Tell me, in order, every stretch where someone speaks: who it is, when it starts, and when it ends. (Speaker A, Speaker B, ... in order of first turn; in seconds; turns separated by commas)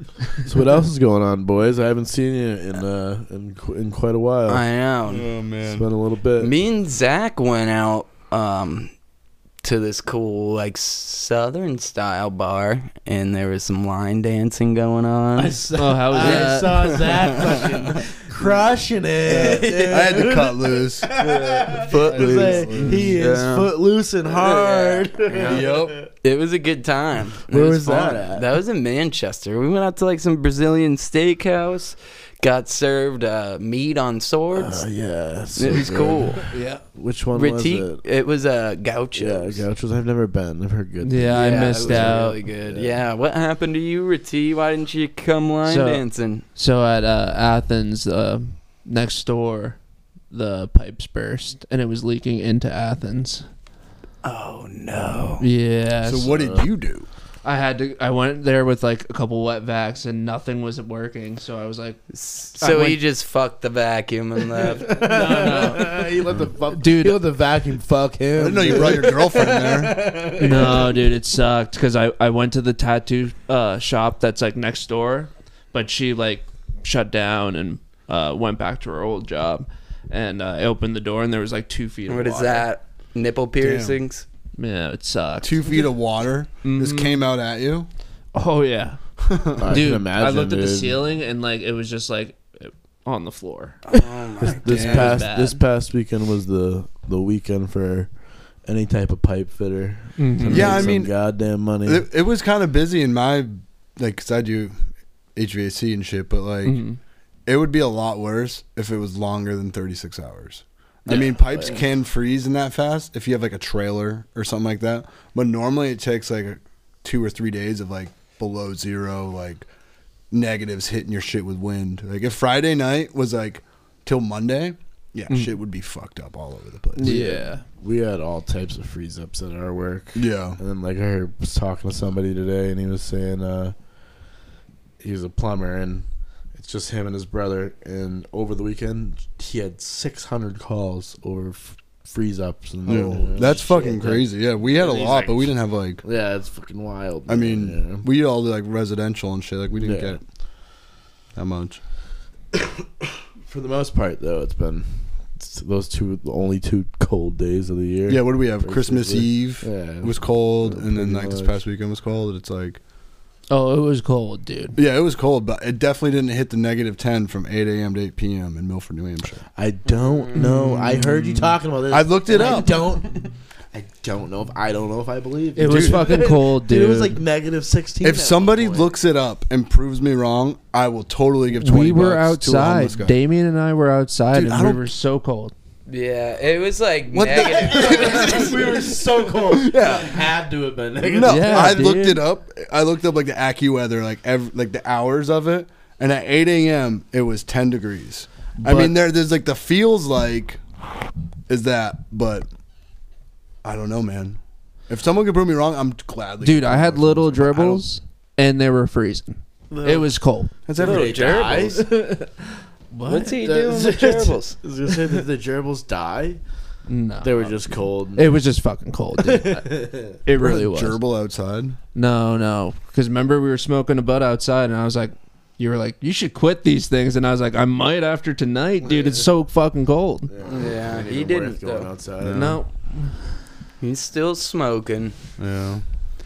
Speaker A: 0.5-4.7, Speaker B: 4.5-5.3, Speaker C: 5.1-5.9, Speaker A: 5.7-6.5, Speaker B: 6.4-8.9, Speaker B: 9.6-15.6, Speaker A: 15.4-26.1, Speaker D: 15.8-17.1, Speaker B: 16.1-16.6, Speaker B: 17.5-18.0, Speaker C: 19.3-23.2, Speaker B: 19.3-20.1, Speaker B: 21.2-34.9, Speaker D: 22.8-23.1, Speaker C: 25.4-26.0, Speaker A: 27.5-28.5, Speaker A: 34.5-38.0, Speaker B: 35.6-36.5, Speaker D: 36.5-36.8, Speaker B: 37.3-39.6, Speaker A: 39.1-43.0, Speaker D: 41.0-42.4, Speaker B: 41.3-46.4, Speaker D: 45.6-49.8, Speaker D: 50.3-53.5, Speaker B: 54.2-55.5, Speaker D: 55.4-56.6, Speaker C: 56.0-57.1, Speaker D: 57.4-62.0, Speaker B: 62.1-65.5, Speaker D: 62.6-63.0, Speaker A: 64.8-71.0, Speaker D: 64.9-66.2, Speaker D: 66.7-67.2, Speaker C: 68.4-70.3, Speaker D: 70.4-82.7, Speaker B: 82.1-84.2, Speaker C: 83.6-84.0, Speaker D: 84.6-85.8, Speaker C: 85.4-87.9, Speaker D: 86.6-87.2, Speaker D: 88.3-89.0, Speaker C: 89.2-89.8, Speaker A: 89.6-91.1, Speaker D: 89.6-94.0, Speaker B: 93.9-95.2, Speaker A: 94.4-102.1, Speaker D: 94.5-95.6, Speaker C: 94.8-95.1, Speaker D: 100.2-101.0, Speaker C: 100.5-101.2, Speaker C: 101.8-104.7, Speaker C: 105.4-106.8, Speaker D: 106.7-107.0, Speaker C: 107.5-119.7, Speaker D: 111.1-111.8, Speaker C: 120.3-127.2, Speaker D: 125.3-125.6, Speaker D: 127.0-127.6, Speaker A: 127.0-133.8, Speaker C: 130.2-130.6, Speaker A: 135.0-148.1, Speaker C: 142.9-146.0, Speaker C: 147.3-150.2, Speaker A: 149.8-150.2, Speaker C: 151.3-151.8, Speaker A: 153.4-161.6, Speaker C: 158.1-162.8, Speaker D: 163.5-164.8, Speaker C: 164.8-169.4, Speaker A: 169.6-178.9, Speaker B: 169.9-170.4, Speaker D: 170.3-171.6, Speaker C: 171.9-172.8, Speaker D: 175.6-177.2, Speaker C: 175.6-176.1, Speaker C: 178.0-183.2, Speaker D: 181.5-185.5, Speaker C: 184.3-184.9, Speaker B: 185.9-188.9, Speaker C: 187.1-188.8, Speaker A: 187.2-191.9, Speaker C: 189.4-190.2, Speaker C: 191.0-200.6, Speaker D: 191.2-192.2, Speaker A: 198.6-199.0, Speaker C: 201.5-202.5, Speaker C: 203.6-207.8, Speaker D: 206.4-210.5, Speaker A: 209.7-210.1, Speaker C: 210.7-211.5, Speaker A: 210.8-212.1, Speaker B: 210.8-211.9, Speaker D: 211.7-213.3, Speaker B: 213.1-214.6, Speaker A: 213.1-216.4, Speaker D: 216.9-221.0, Speaker A: 217.2-218.3, Speaker A: 219.2-220.2, Speaker C: 220.3-221.8, Speaker D: 221.9-230.3, Speaker A: 228.8-229.2, Speaker A: 230.3-232.6, Speaker B: 230.4-231.9, Speaker C: 232.2-232.6, Speaker D: 232.3-233.3, Speaker B: 233.8-235.2, Speaker C: 235.4-235.8